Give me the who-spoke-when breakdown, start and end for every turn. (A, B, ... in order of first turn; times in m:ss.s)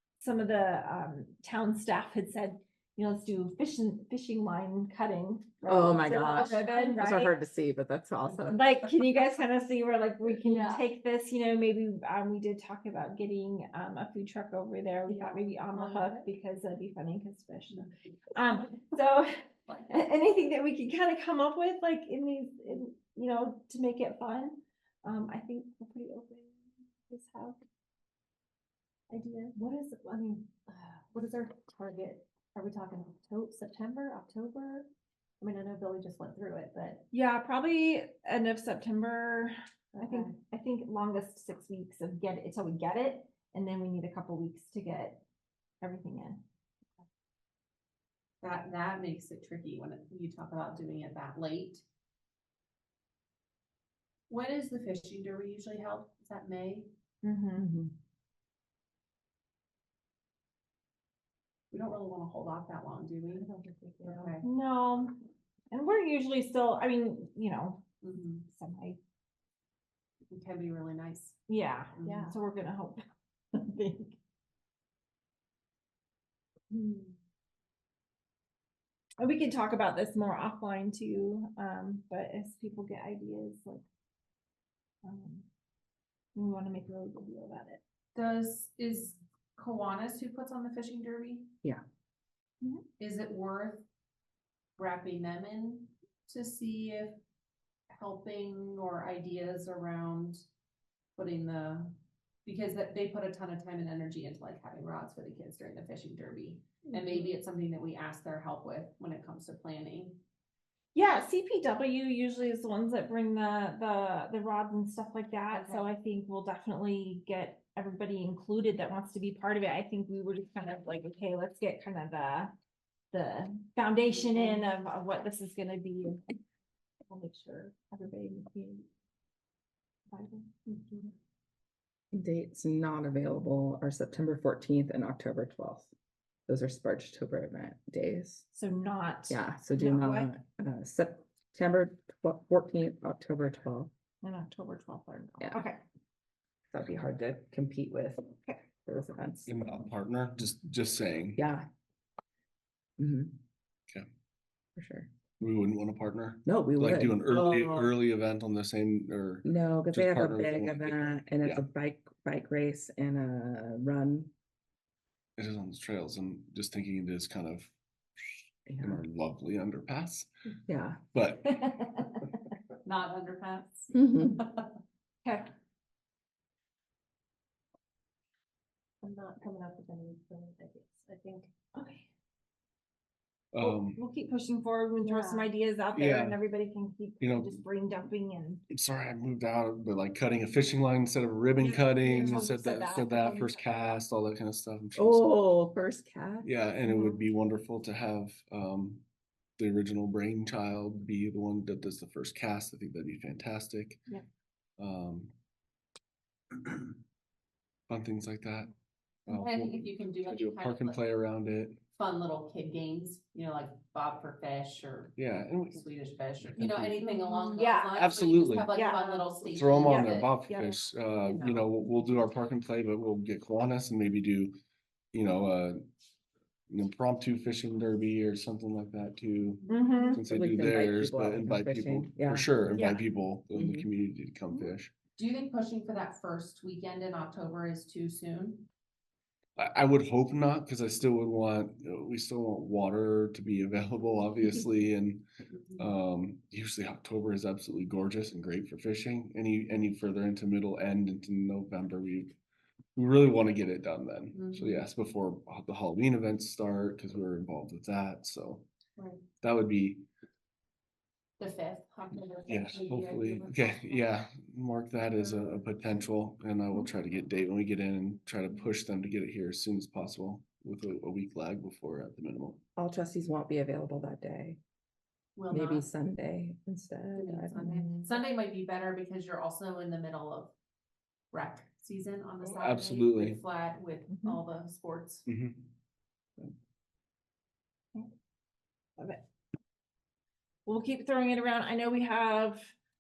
0:00.2-0:07.4 A
0:05.6-0:09.0 B
0:08.5-0:27.6 A
0:10.4-0:10.8 C
0:15.1-0:16.3 C
0:29.1-0:29.6 A
0:29.6-0:34.9 C
0:35.4-0:37.0 C
0:37.1-0:45.2 A
0:40.0-0:40.3 C
0:45.8-0:46.4 A
0:48.4-0:51.8 D
0:54.3-0:56.9 D
0:57.2-0:57.7 A
0:57.6-0:57.9 B
1:01.7-1:03.5 D
1:03.3-1:04.4 C
1:04.0-1:04.4 D
1:04.4-1:05.2 A
1:05.7-1:07.8 A
1:08.0-1:08.4 D
1:08.5-1:09.0 A
1:10.3-1:11.4 D
1:11.5-1:14.2 A
1:11.9-1:12.4 D
1:16.7-1:17.1 C
1:19.2-1:23.8 A
1:25.0-1:25.5 A
1:26.3-1:27.8 A
1:28.1-1:31.5 D
1:33.0-1:33.9 D
1:34.8-1:37.2 D
1:37.9-1:40.4 D
1:41.2-1:50.2 D
1:46.9-1:47.4 A
1:50.9-2:02.6 A
1:55.5-1:55.9 D
2:03.1-2:06.2 A
2:07.1-2:08.9 A
2:10.1-2:11.1 A
2:12.1-2:15.9 B
2:16.5-2:18.4 B
2:18.5-2:20.3 A
2:19.3-2:23.9 B
2:24.2-2:25.8 A
2:25.4-2:25.7 B
2:26.7-2:29.5 B
2:29.5-2:31.4 E
2:31.4-2:31.7 B
2:33.0-2:33.4 B
2:34.8-2:35.1 B
2:35.4-2:41.6 E
2:36.5-2:37.9 B
2:39.4-2:44.3 B
2:45.4-2:50.3 E
2:48.7-2:49.0 B
2:50.7-2:51.0 B
2:51.1-2:51.8 E
2:51.5-2:52.2 A
2:52.8-2:54.7 D
2:53.9-2:54.4 B
2:59.0-3:01.5 C
3:01.8-3:02.1 A
3:03.5-3:04.0 E
3:03.6-3:08.6 A
3:05.0-3:05.5 C
3:06.0-3:06.4 E
3:07.2-3:07.6 E
3:08.7-3:15.3 E
3:11.6-3:13.6 A
3:12.2-3:12.5 C
3:15.0-3:16.5 B
3:16.4-3:19.0 E
3:16.9-3:17.2 A
3:19.6-3:24.1 E
3:24.8-3:25.3 E
3:26.5-3:27.0 E
3:27.9-3:28.7 E
3:29.3-3:31.8 E
3:29.3-3:31.0 D
3:32.0-3:40.3 D
3:35.2-3:35.8 E
3:36.6-3:37.0 E
3:37.3-3:38.1 A
3:38.0-3:38.8 E
3:38.7-3:40.9 A
3:39.5-3:44.6 E
3:41.3-3:41.6 D
3:45.1-3:45.8 E
3:46.7-3:54.9 E
3:49.7-3:50.2 A
3:50.3-3:52.5 B
3:53.6-3:53.9 B
3:55.2-3:58.7 D
3:59.6-4:05.2 E
4:05.5-4:05.9 D
4:05.8-4:12.4 E
4:13.0-4:18.7 E
4:14.3-4:14.9 D
4:19.0-4:19.2 D
4:19.4-4:20.1 E
4:21.4-4:24.1 D
4:22.5-4:32.6 E
4:25.1-4:26.0 D
4:32.8-4:34.6 B
4:35.4-4:35.9 D
4:35.5-4:38.1 B
4:37.1-4:40.5 D
4:41.3-4:45.3 D
4:42.4-4:43.4 E
4:44.1-4:44.4 A
4:45.2-4:45.7 E
4:49.0-4:49.2 A
4:50.6-4:52.8 A